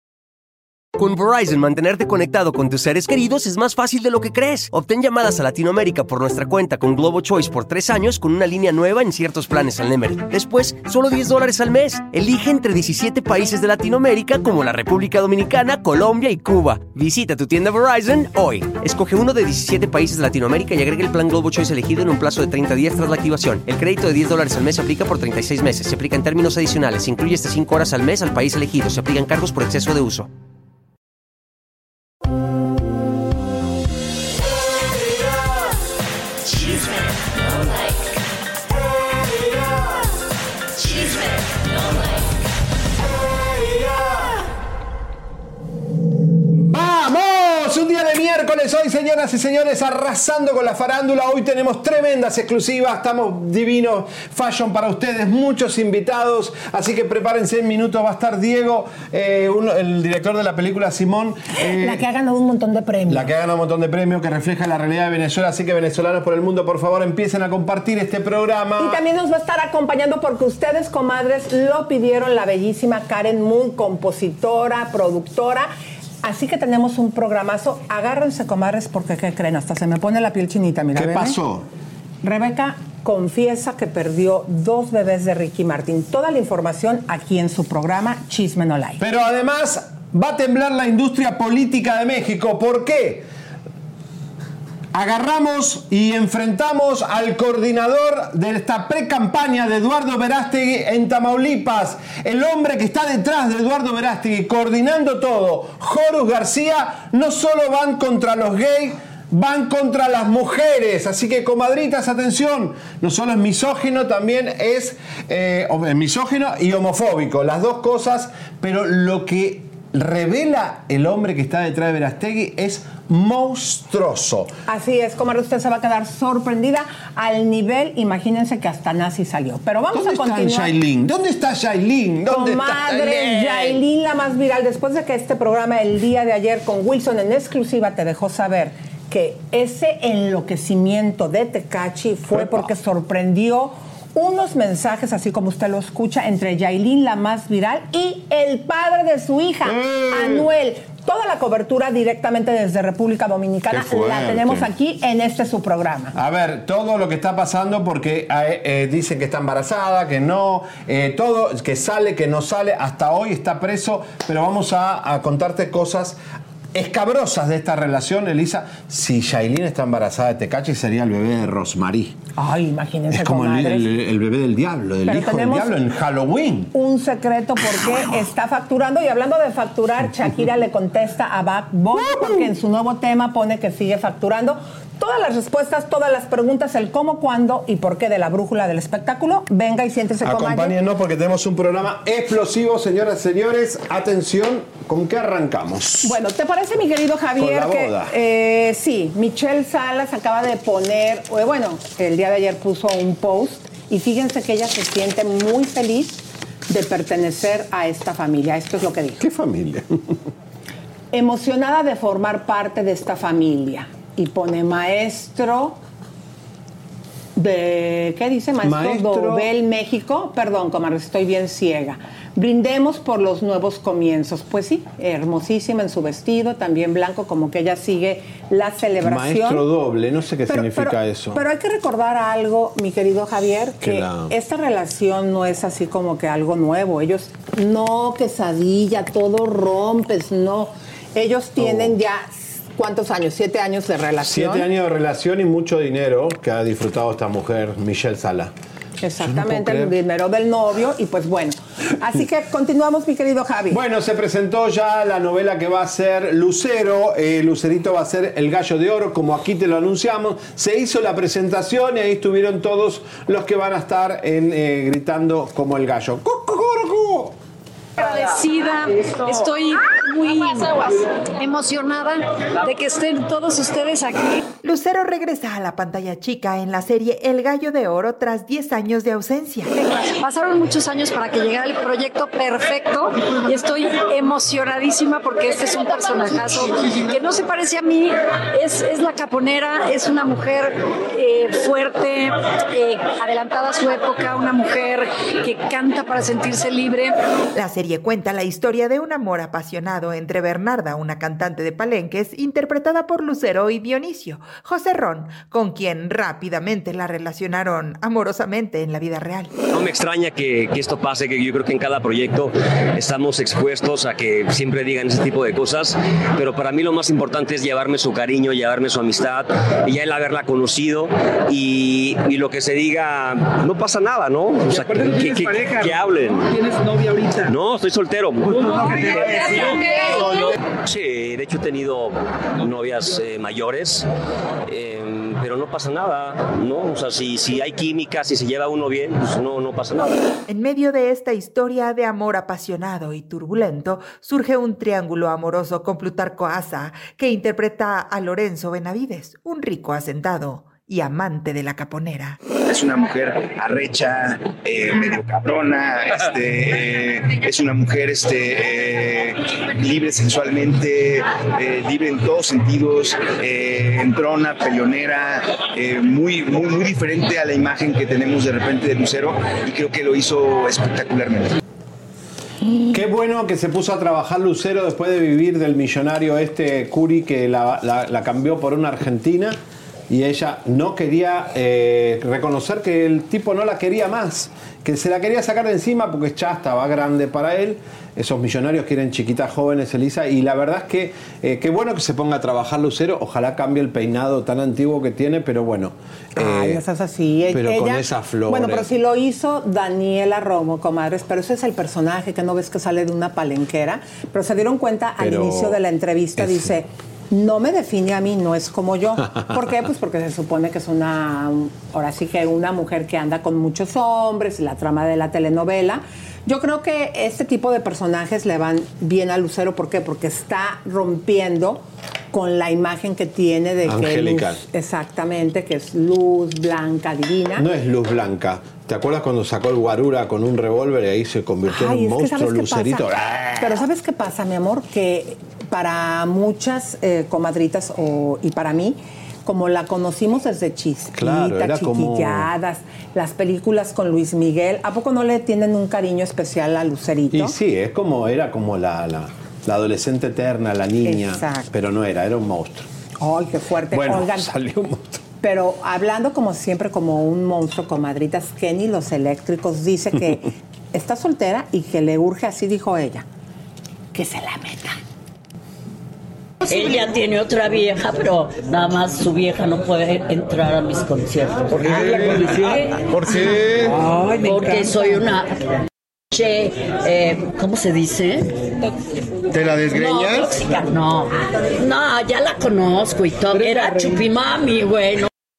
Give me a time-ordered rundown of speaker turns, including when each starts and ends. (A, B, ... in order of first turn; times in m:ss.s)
0:01.0-0:30.3 A
0:39.0-0:39.6 B
0:43.4-0:44.2 B
0:46.5-1:02.0 B
1:01.6-1:03.3 C
1:03.1-1:09.0 B
1:08.8-1:15.7 C
1:16.2-1:21.4 C
1:21.0-1:21.7 B
1:22.2-1:29.0 C
1:29.0-1:33.3 B
1:34.9-2:04.5 B
2:04.7-2:10.7 C
2:09.9-2:13.8 B
2:12.3-2:36.2 C
2:22.3-2:22.6 B
2:29.7-2:30.5 B
2:33.7-2:34.7 B
2:36.1-2:46.2 B
2:46.7-2:52.2 B
2:52.4-2:53.9 C
2:53.1-2:56.7 B
2:55.1-2:55.7 C
2:56.7-3:10.8 C
3:02.0-3:02.5 B
3:10.2-3:16.2 B
3:16.0-3:29.2 C
3:17.4-3:18.1 B
3:29.2-3:30.1 B
3:31.1-3:35.8 C
3:37.4-3:49.6 C
3:38.6-3:39.5 B
3:49.0-3:51.4 B
3:50.5-4:04.7 C
3:53.8-3:54.3 B
4:01.6-4:02.0 B
4:04.2-4:08.5 B
4:09.0-4:13.8 C
4:09.2-4:10.0 B
4:13.7-4:27.4 B
4:28.0-4:34.4 D
4:34.6-4:39.7 E
4:39.8-4:57.2 D
4:57.6-5:09.5 E
5:09.7-5:26.6 F
5:27.3-5:34.1 F
5:34.7-5:40.2 F
5:40.5-5:52.4 E
5:52.6-6:11.6 G
6:12.9-6:19.6 B
6:20.1-6:36.8 B
6:36.4-7:07.7 C
6:37.5-6:38.9 B
6:45.2-6:45.8 B
6:46.4-6:46.8 B
6:49.3-6:49.7 B
7:03.8-7:04.6 B
7:07.6-7:13.8 B
7:11.7-7:13.1 C
7:13.6-7:27.6 C
7:21.2-7:22.5 B
7:27.3-7:32.9 B
7:31.0-7:31.7 C
7:33.2-7:34.5 C
7:33.9-7:35.2 B
7:35.4-7:43.3 C
7:44.1-7:45.0 C
7:46.7-7:52.7 H
7:51.8-7:53.8 I
7:52.0-7:52.6 B
7:53.3-7:53.6 H
7:54.2-7:55.6 H
7:56.3-7:58.7 H
7:59.6-8:00.5 I
7:59.8-8:05.3 H